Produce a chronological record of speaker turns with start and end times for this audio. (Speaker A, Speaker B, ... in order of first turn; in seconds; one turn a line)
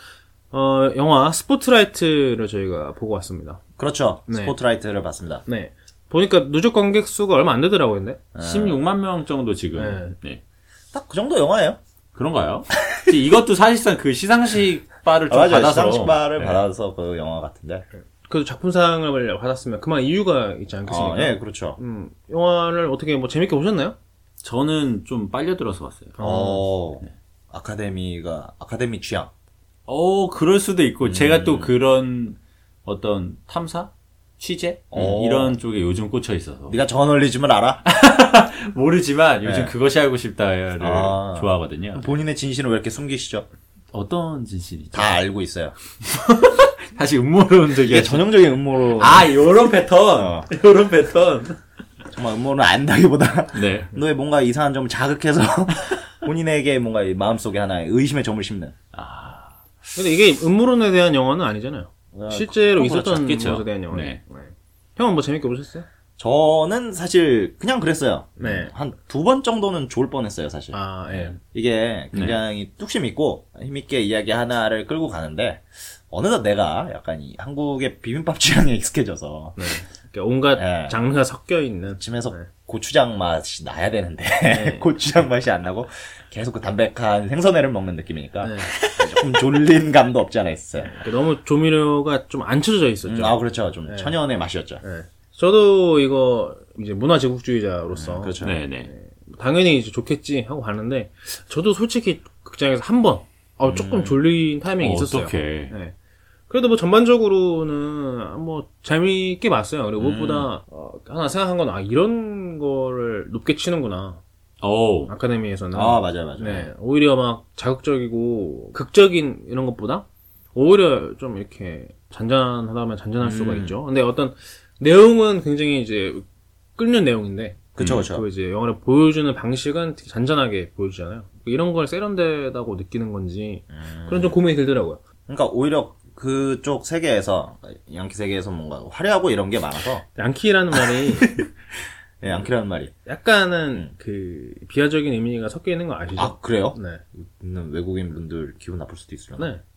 Speaker A: 0.5-3.6
Speaker B: 3.8-5.4
Speaker A: 4.3-4.5
Speaker A: 5.5-8.2
Speaker B: 8.3-8.8
Speaker C: 8.4-10.4
Speaker A: 9.8-10.2
Speaker B: 10.9-11.8
Speaker C: 12.2-16.6
Speaker B: 15.3-17.9
Speaker A: 18.2-24.0
Speaker B: 20.9-21.8
Speaker C: 24.4-26.2
Speaker A: 26.2-26.7
Speaker B: 26.2-29.3
Speaker C: 29.9-36.8
Speaker B: 31.0-31.7
Speaker B: 34.9-35.5
Speaker B: 36.7-37.8
Speaker C: 37.9-42.0
Speaker B: 39.4-39.7
Speaker B: 40.8-43.5
Speaker C: 43.9-45.1
Speaker B: 44.9-45.8
Speaker C: 46.0-48.3
Speaker B: 47.9-49.3
Speaker C: 48.9-51.6
Speaker B: 50.2-50.5
Speaker B: 52.1-58.8
Speaker C: 53.5-53.9
Speaker C: 58.9-59.6
Speaker A: 60.0-65.9
Speaker B: 62.1-63.3
Speaker C: 63.2-64.2
Speaker B: 66.2-79.6
Speaker A: 68.4-68.7
Speaker A: 70.7-71.4
Speaker C: 72.1-72.4
Speaker A: 79.6-82.5
Speaker B: 80.6-81.0
Speaker B: 82.0-91.0
Speaker A: 84.5-84.9
Speaker A: 88.4-88.7
Speaker C: 88.7-89.2
Speaker A: 90.8-94.2
Speaker B: 93.0-94.8
Speaker A: 94.8-106.0
Speaker B: 97.9-98.6
Speaker C: 98.4-98.9
Speaker B: 103.6-104.2
Speaker C: 104.8-105.7
Speaker A: 106.5-114.2
Speaker C: 110.0-110.5
Speaker C: 114.6-115.1
Speaker A: 115.1-126.3
Speaker B: 115.7-116.7
Speaker B: 123.2-123.8
Speaker A: 126.8-135.0
Speaker B: 127.8-128.2
Speaker C: 127.8-128.1
Speaker B: 133.7-134.4
Speaker B: 135.3-140.1
Speaker A: 140.2-141.3
Speaker B: 142.2-142.9
Speaker A: 143.1-147.0
Speaker B: 146.2-149.6